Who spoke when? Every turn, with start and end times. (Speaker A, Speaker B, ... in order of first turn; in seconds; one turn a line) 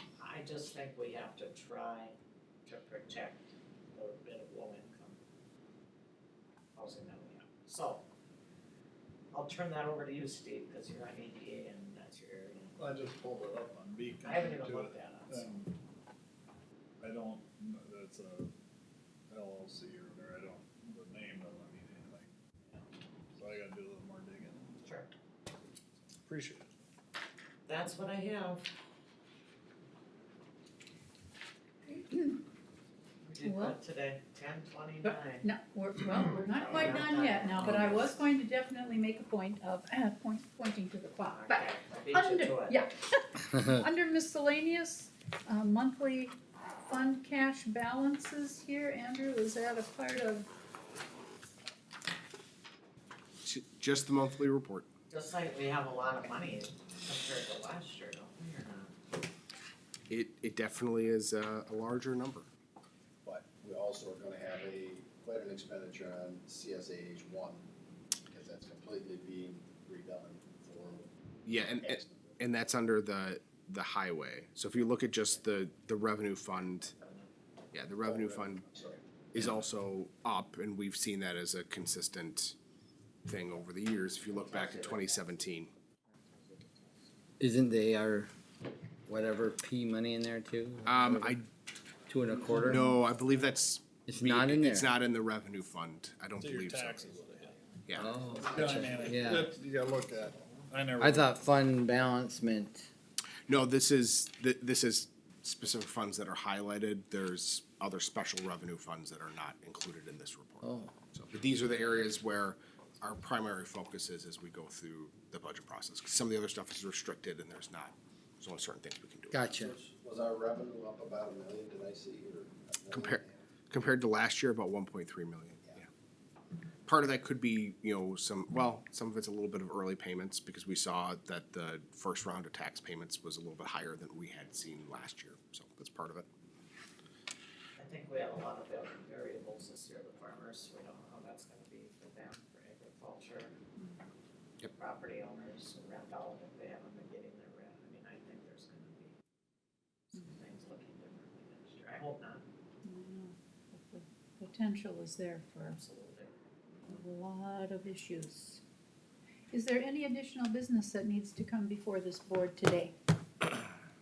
Speaker A: 0.2-5.2
Speaker A: 6.8-8.0
Speaker A: 9.3-12.8
Speaker B: 12.8-15.7
Speaker A: 14.2-15.5
Speaker B: 17.0-18.6
Speaker B: 19.3-22.3
Speaker B: 23.3-24.8
Speaker A: 24.8-25.1
Speaker B: 26.3-26.7
Speaker A: 27.7-28.6
Speaker C: 31.9-32.4
Speaker A: 33.2-35.5
Speaker C: 33.4-33.8
Speaker C: 35.0-50.5
Speaker A: 36.5-38.2
Speaker A: 41.3-42.8
Speaker D: 53.4-54.9
Speaker A: 55.1-58.9
Speaker D: 60.1-62.5
Speaker E: 63.2-67.6
Speaker E: 68.3-72.4
Speaker D: 71.5-76.9
Speaker A: 76.9-77.3
Speaker D: 77.7-78.7
Speaker E: 78.0-79.0
Speaker D: 79.3-82.5
Speaker D: 83.2-85.7
Speaker A: 84.3-85.4
Speaker A: 86.1-87.1
Speaker F: 87.4-88.3
Speaker F: 89.1-91.3
Speaker D: 90.8-91.5
Speaker F: 92.1-92.8
Speaker D: 92.5-97.2
Speaker F: 94.0-94.9
Speaker B: 96.4-97.6
Speaker D: 97.9-98.2
Speaker F: 98.0-99.5
Speaker B: 98.3-101.5
Speaker E: 98.6-99.0
Speaker F: 101.0-102.9
Speaker D: 103.5-119.4
Speaker F: 110.6-111.0
Speaker F: 119.3-119.7
Speaker E: 119.5-123.4
Speaker D: 122.9-125.9
Speaker D: 126.9-136.2
Speaker A: 137.8-143.5
Speaker A: 144.8-149.1
Speaker A: 150.1-152.4
Speaker C: 152.8-155.8
Speaker A: 155.6-156.3
Speaker C: 156.9-158.6
Speaker C: 159.5-162.9